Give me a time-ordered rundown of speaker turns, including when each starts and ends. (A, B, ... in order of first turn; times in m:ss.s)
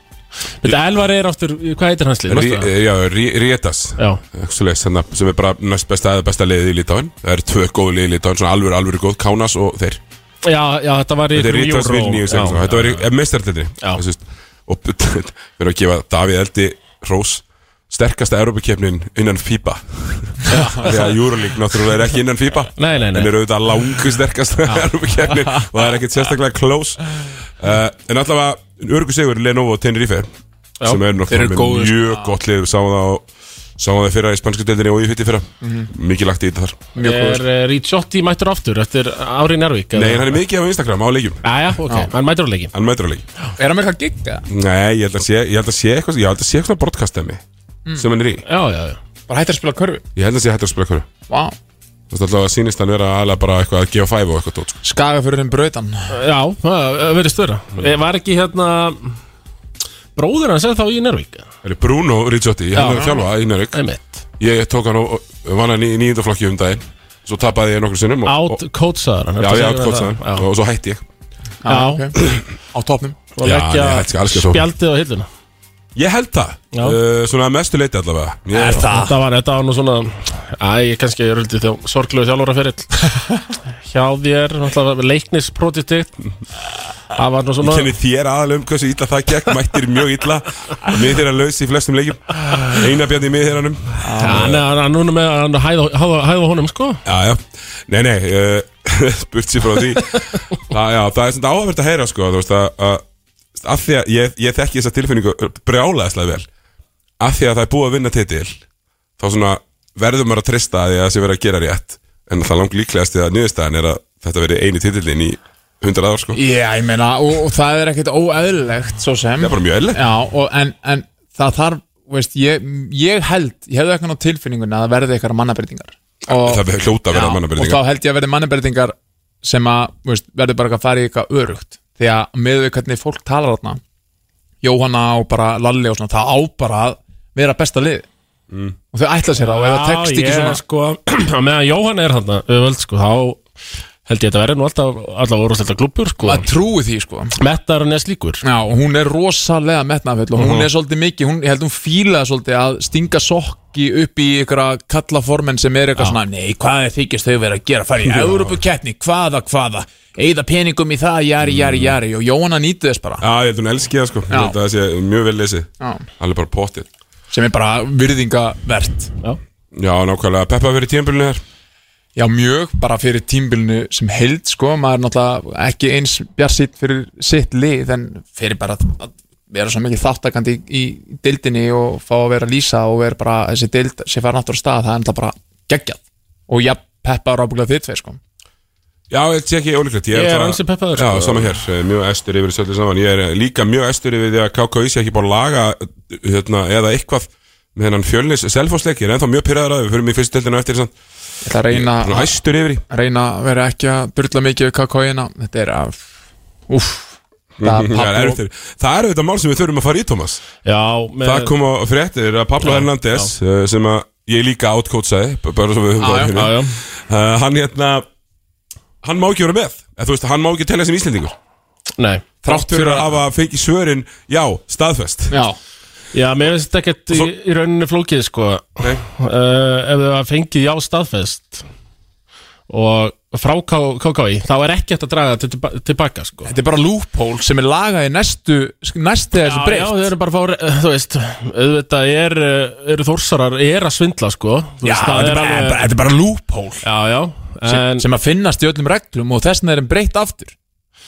0:00.6-0:02.7 A
0:02.3-0:10.0 B
0:10.4-0:13.0 A
0:11.3-0:30.3 B
0:20.5-0:21.0 A
0:22.8-0:23.3 A
0:30.8-0:33.3 B
0:31.3-0:32.3 C
0:33.8-0:36.8 B
0:35.6-0:35.9 C
0:37.0-0:37.4 C
0:37.0-0:40.4 A
0:39.9-0:41.4 B
0:41.4-0:42.7 A
0:42.7-0:43.2 B
0:43.6-0:44.5 C
0:44.5-0:47.4 B
0:48.0-0:48.4 B
0:48.5-0:49.0 A
0:49.3-0:50.0 C
0:50.2-0:51.1 B
0:51.3-0:51.6 C
0:52.1-0:54.8 B
0:54.8-0:56.2 C
0:56.1-0:59.2 A
1:00.2-1:01.5 A
1:01.6-1:03.8 B
1:02.8-1:04.2 A
1:04.4-1:08.6 B
1:08.3-1:10.5 A
1:09.4-1:11.0 B
1:11.6-1:13.2 C
1:11.7-1:12.1 A
1:13.4-1:15.3 A
1:13.4-1:14.7 B
1:16.0-1:18.9 B
1:18.5-1:19.2 C
1:18.8-1:23.1 A
1:23.8-1:26.1 A
1:27.1-1:27.9 A
1:27.6-1:34.6 B
1:34.0-1:34.6 C
1:34.2-1:37.0 A
1:37.0-1:43.0 B
1:43.6-1:46.5 B
1:47.2-1:48.6 B
1:49.2-1:56.4 B
1:56.3-2:13.8 C
1:59.4-2:00.0 B
2:06.3-2:07.8 B
2:14.6-2:18.1 C
2:18.5-2:18.8 B
2:18.9-2:20.6 C
2:19.4-2:23.5 A
2:24.1-2:26.5 A
2:26.2-2:27.4 C
2:27.4-2:28.4 A
2:28.4-2:43.2 C
2:30.4-2:30.7 A
2:38.0-2:38.5 B
2:41.4-2:42.0 B
2:43.2-2:46.9 B
2:44.3-2:44.6 C
2:47.3-2:49.1 C
2:49.7-2:51.4 B
2:52.2-3:08.2 C
3:09.1-3:20.9 B
3:10.1-3:11.5 A
3:21.4-3:26.0 C
3:21.7-3:22.8 B
3:26.7-3:28.4 C
3:27.6-3:30.4 B
3:30.6-3:31.5 A
3:31.2-3:38.1 B
3:32.6-3:33.3 A
3:36.0-3:36.4 C
3:36.3-3:36.8 A
3:39.0-3:41.4 B
3:42.0-3:42.3 A
3:42.4-3:43.1 C
3:42.5-3:45.4 B
3:45.3-3:45.6 C
3:46.1-3:51.6 A
3:52.7-3:56.5 A
3:56.4-4:00.1 C
3:59.4-4:05.8 A
4:04.8-4:06.8 C
4:06.8-4:08.1 A
4:07.6-4:10.6 C